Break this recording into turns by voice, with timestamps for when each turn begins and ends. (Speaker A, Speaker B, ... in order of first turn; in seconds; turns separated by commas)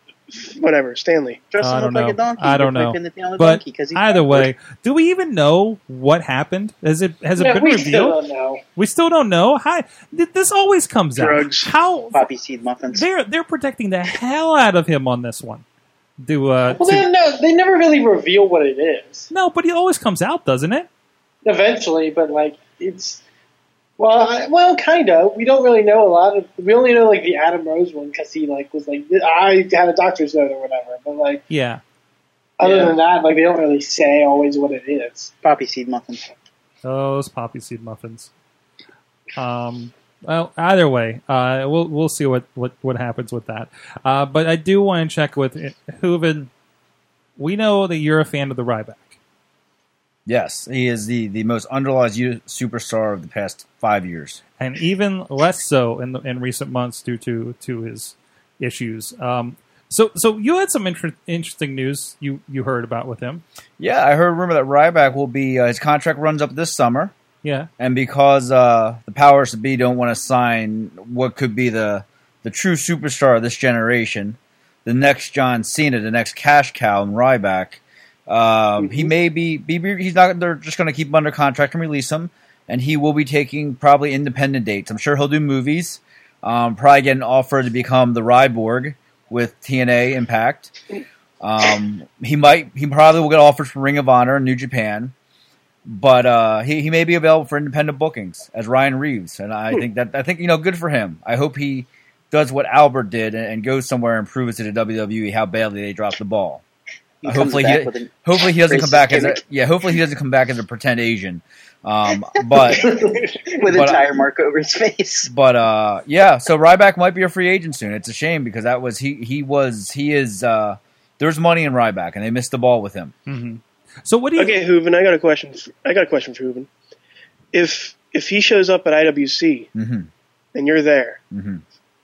Speaker A: 0.3-1.4, Speaker B: 1.5-4.5, Speaker C: 1.6-8.2, Speaker D: 7.4-8.6, Speaker C: 8.8-12.3, Speaker A: 11.2-11.7, Speaker B: 12.1-13.1, Speaker C: 12.9-15.7, Speaker C: 16.2-17.1, Speaker D: 16.7-19.3, Speaker C: 19.3-20.9, Speaker D: 21.4-23.2, Speaker D: 24.0-31.4, Speaker C: 31.5-31.8, Speaker D: 32.6-35.3, Speaker A: 32.6-32.9, Speaker B: 35.4-36.3, Speaker C: 36.8-38.3, Speaker C: 39.4-46.5, Speaker C: 47.4-49.2, Speaker E: 50.3-54.4, Speaker C: 54.6-63.4, Speaker E: 63.8-67.1, Speaker C: 67.4-67.7, Speaker E: 67.8-90.7, Speaker A: 78.8-79.1, Speaker E: 91.4-95.1, Speaker E: 95.8-106.6, Speaker B: 107.2-109.4, Speaker E: 107.2-113.0, Speaker B: 113.5-115.3, Speaker E: 113.7-114.0, Speaker E: 115.3-123.1, Speaker C: 123.3-124.6, Speaker A: 124.4-126.7, Speaker A: 127.5-129.7, Speaker E: 129.8-130.1, Speaker A: 130.5-131.2, Speaker E: 131.3-131.6